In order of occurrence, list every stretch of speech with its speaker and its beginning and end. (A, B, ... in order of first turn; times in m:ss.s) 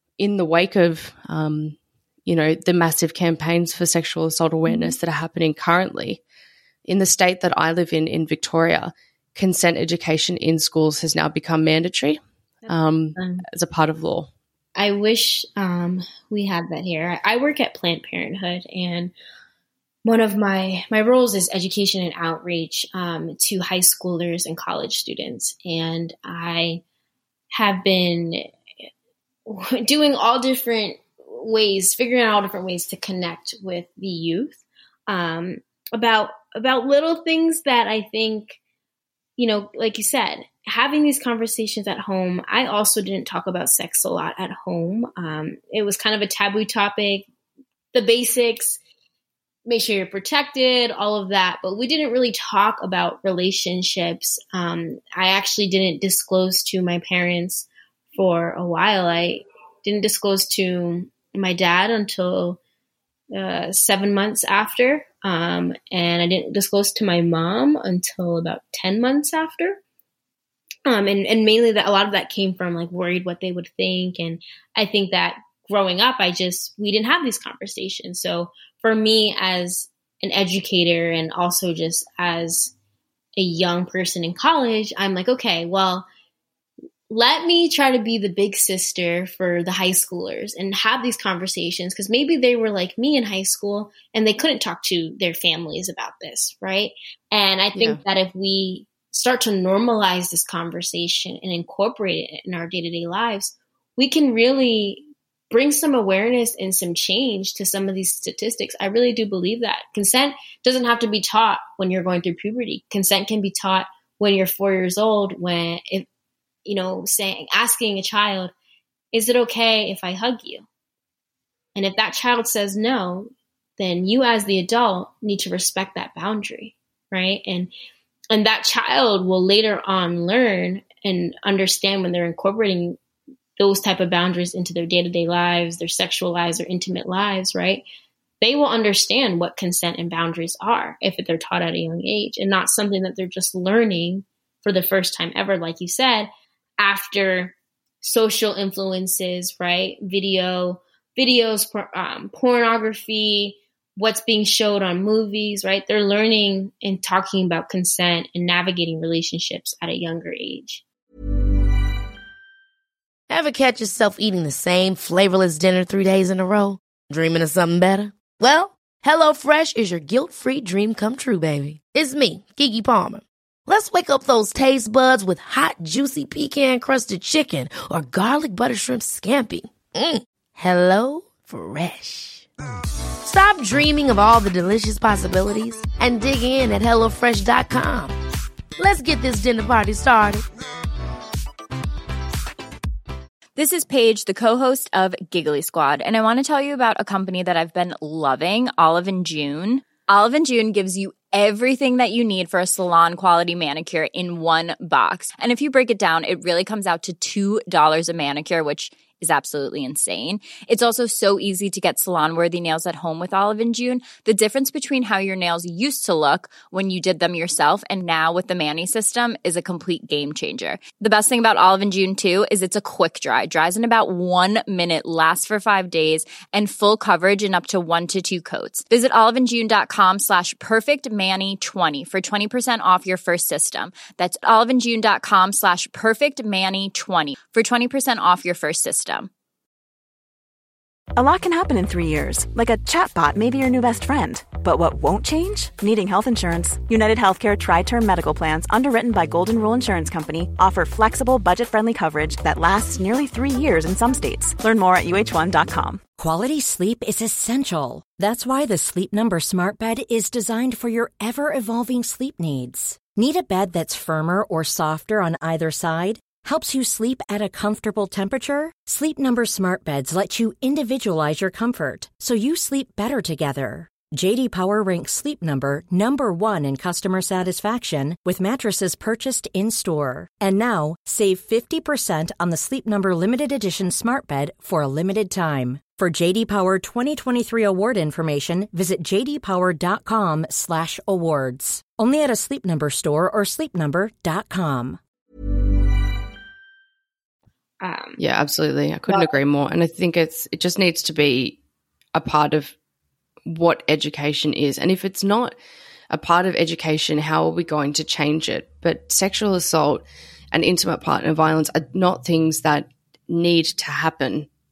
0:00.2-0:06.2 A
0:04.7-0:05.0 B
0:06.8-0:14.3 A
0:12.7-0:13.4 B
0:14.8-0:19.1 B
0:20.0-0:26.8 B
0:27.5-0:28.5 B
0:29.5-0:38.6 B
0:39.4-0:47.3 B
0:47.9-0:48.8 B
0:49.6-1:02.6 B
1:03.3-1:09.8 B
1:10.8-1:22.7 B
1:23.4-1:26.1 B
1:27.1-1:56.1 B
1:37.8-1:38.0 A
1:56.6-1:58.5 B
1:59.1-2:00.6 B
2:01.7-2:07.7 B
2:08.3-2:13.0 B
2:13.6-2:17.8 B
2:18.4-2:40.8 B
2:43.3-3:02.5 C
3:03.2-3:08.2 C
3:08.8-3:10.4 C
3:13.6-3:59.3 D
4:01.3-4:15.9 E
4:16.2-4:55.0 F
4:57.8-4:58.2 B
4:58.2-5:01.6 A
4:59.1-4:59.3 B
5:02.1-5:02.7 A
5:03.4-5:05.5 A
5:06.1-5:14.5 A